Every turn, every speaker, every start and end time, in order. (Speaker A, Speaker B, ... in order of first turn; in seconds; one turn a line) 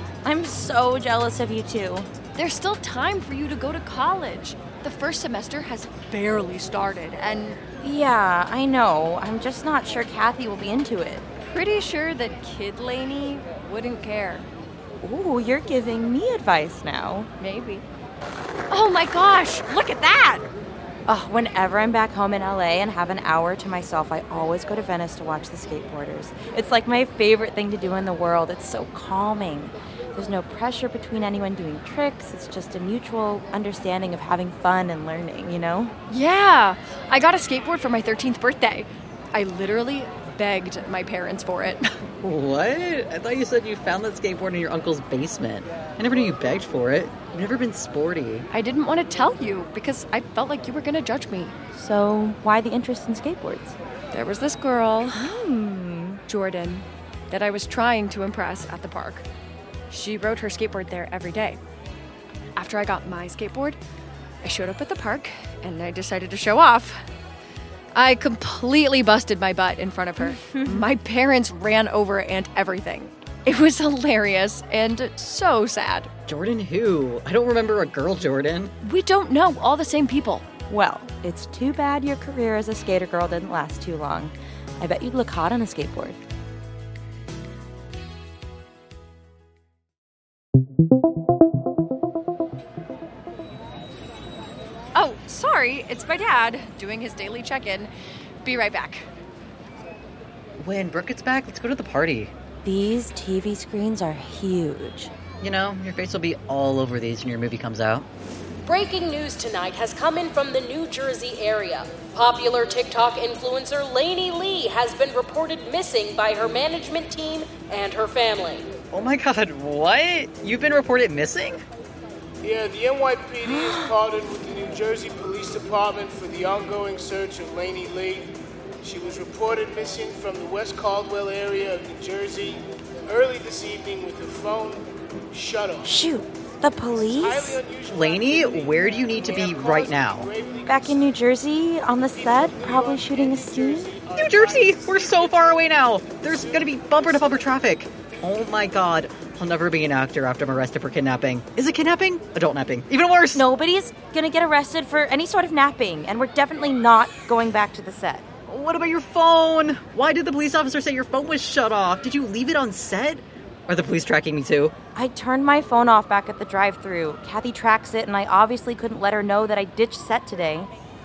Speaker A: 0.2-2.1
Speaker B: 2.4-7.6
Speaker A: 7.8-11.3
Speaker B: 11.5-14.5
Speaker A: 15.0-17.3
Speaker B: 17.4-17.9
Speaker B: 18.7-20.5
Speaker A: 21.1-35.9
Speaker B: 36.1-41.8
Speaker C: 42.2-48.5
Speaker B: 48.5-51.5
Speaker A: 51.7-53.8
Speaker B: 54.1-55.4
Speaker A: 55.1-56.2
Speaker B: 56.3-59.2
Speaker B: 59.9-61.6
Speaker B: 62.6-63.8
Speaker B: 64.4-67.0
Speaker B: 67.9-76.1
Speaker A: 70.2-70.8
Speaker C: 76.3-78.7
Speaker B: 78.8-80.5
Speaker A: 80.7-86.2
Speaker B: 95.0-97.9
Speaker B: 98.4-99.1
Speaker C: 100.6-102.3
Speaker A: 102.6-105.1
Speaker C: 105.4-108.1
Speaker D: 108.6-118.7
Speaker C: 118.9-121.6
Speaker E: 122.4-128.3
Speaker E: 128.8-135.9
Speaker A: 135.8-137.6
Speaker E: 137.2-140.9
Speaker C: 137.9-140.3
Speaker A: 140.7-144.0
Speaker E: 142.4-145.3
Speaker C: 144.2-153.4
Speaker E: 146.5-147.1
Speaker A: 153.3-158.3
Speaker C: 158.5-164.8
Speaker A: 164.9-170.7